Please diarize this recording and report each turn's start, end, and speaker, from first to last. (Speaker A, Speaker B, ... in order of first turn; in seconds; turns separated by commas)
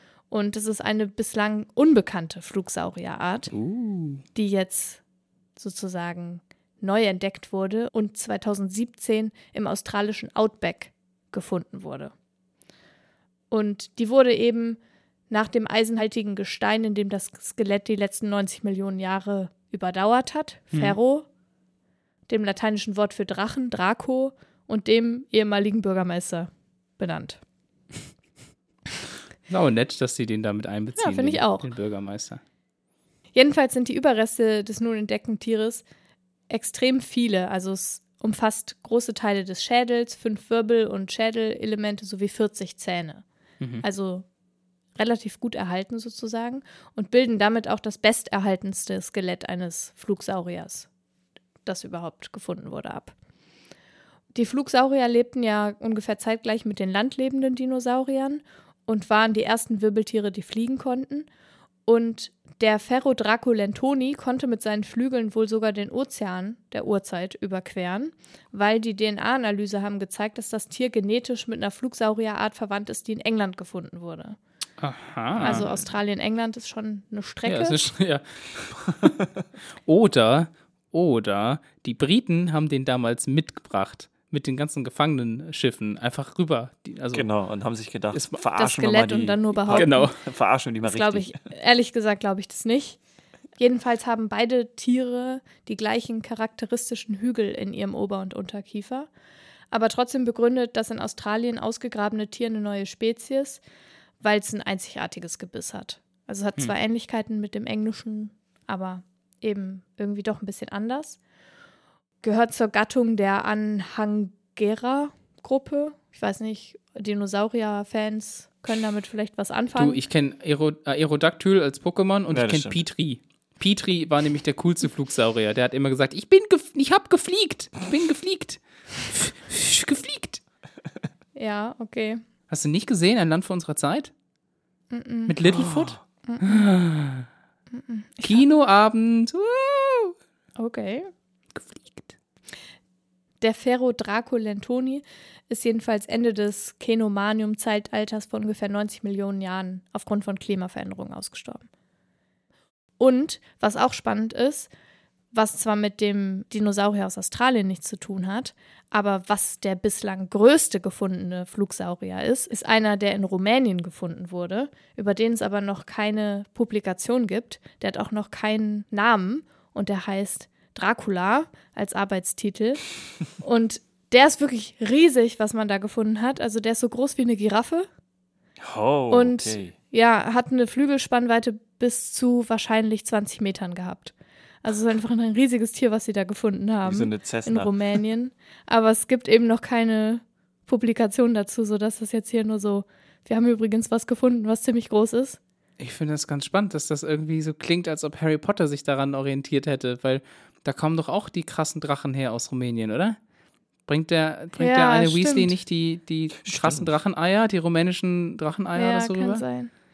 Speaker A: 0.3-3.5, Speaker B: 3.5-4.2, Speaker A: 4.3-5.0, Speaker A: 5.6-12.1, Speaker A: 13.5-14.8, Speaker A: 15.3-21.3, Speaker A: 22.3-27.4, Speaker B: 29.5-32.4, Speaker A: 31.0-31.7, Speaker A: 33.4-35.9, Speaker A: 36.5-43.2, Speaker A: 43.8-44.3, Speaker A: 45.0-50.9, Speaker A: 51.7-53.1, Speaker A: 54.3-61.3, Speaker A: 61.9-74.4, Speaker B: 74.8-75.7, Speaker C: 75.4-75.8, Speaker A: 75.4-77.9, Speaker B: 77.5-79.2, Speaker B: 79.7-87.3, Speaker C: 87.1-91.3, Speaker B: 88.1-88.4, Speaker A: 88.6-90.1, Speaker B: 89.7-90.2, Speaker A: 90.8-93.0, Speaker A: 93.6-99.1, Speaker A: 99.7-103.6, Speaker A: 104.2-111.2, Speaker A: 112.2-120.0, Speaker B: 119.8-130.4, Speaker C: 122.3-122.8, Speaker A: 131.4-132.2, Speaker B: 132.5-134.1, Speaker A: 134.9-135.7, Speaker B: 135.3-137.3, Speaker C: 135.6-135.9, Speaker A: 136.3-136.7, Speaker A: 137.7-138.4, Speaker B: 138.2-140.2, Speaker A: 140.6-141.1, Speaker B: 141.6-142.2, Speaker A: 143.4-151.7, Speaker A: 153.0-154.7, Speaker A: 155.3-177.9, Speaker C: 178.6-179.8, Speaker A: 179.1-195.4, Speaker C: 186.8-187.7, Speaker B: 195.8-203.2, Speaker B: 203.9-209.4, Speaker A: 204.6-205.5, Speaker C: 206.4-206.9, Speaker A: 208.8-209.7